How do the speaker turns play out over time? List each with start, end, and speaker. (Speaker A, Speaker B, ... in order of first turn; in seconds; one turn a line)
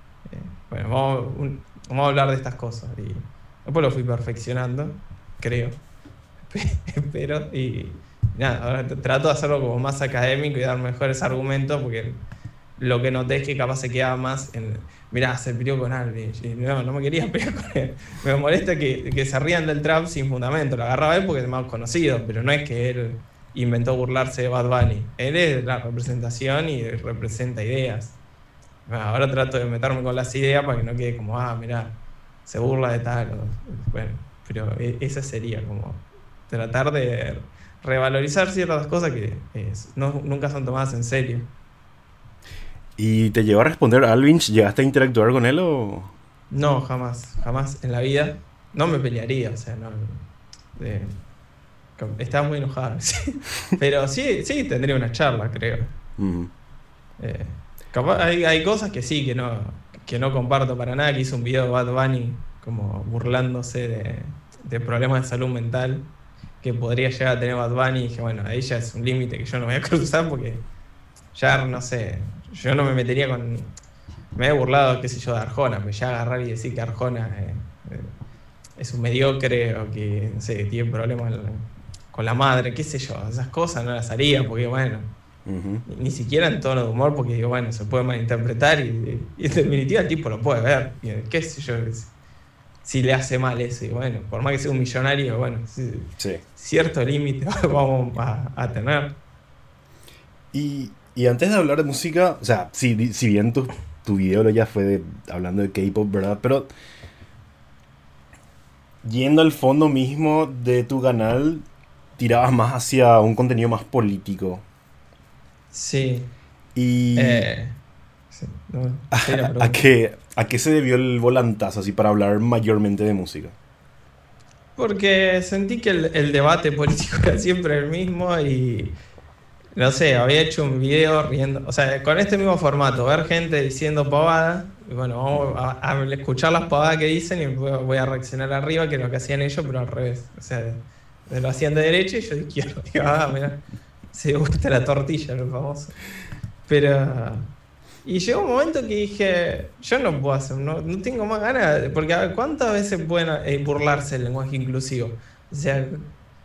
Speaker A: 0.2-5.8
Speaker A: 6.5-12.2
Speaker A: 12.8-28.1
Speaker A: 28.9-31.9
Speaker A: 32.5-41.5
Speaker B: 43.0-46.1
Speaker A: 46.5-51.2
Speaker A: 52.0-55.9
Speaker B: 56.2-56.5
Speaker A: 57.2-66.1
Speaker A: 66.6-70.6
Speaker A: 71.3-73.7
Speaker A: 74.3-78.1
Speaker A: 78.8-85.1
Speaker B: 85.5-85.8
Speaker A: 85.9-92.1
Speaker A: 92.8-99.2
Speaker B: 100.5-106.7
Speaker B: 109.0-111.6
Speaker B: 112.2-114.6
Speaker A: 115.7-116.3
Speaker B: 116.8-117.5
Speaker A: 117.2-117.8
Speaker A: 118.3-119.8
Speaker B: 119.1-123.5
Speaker A: 124.8-129.0
Speaker A: 129.8-145.9
Speaker A: 146.7-147.5
Speaker A: 148.0-156.1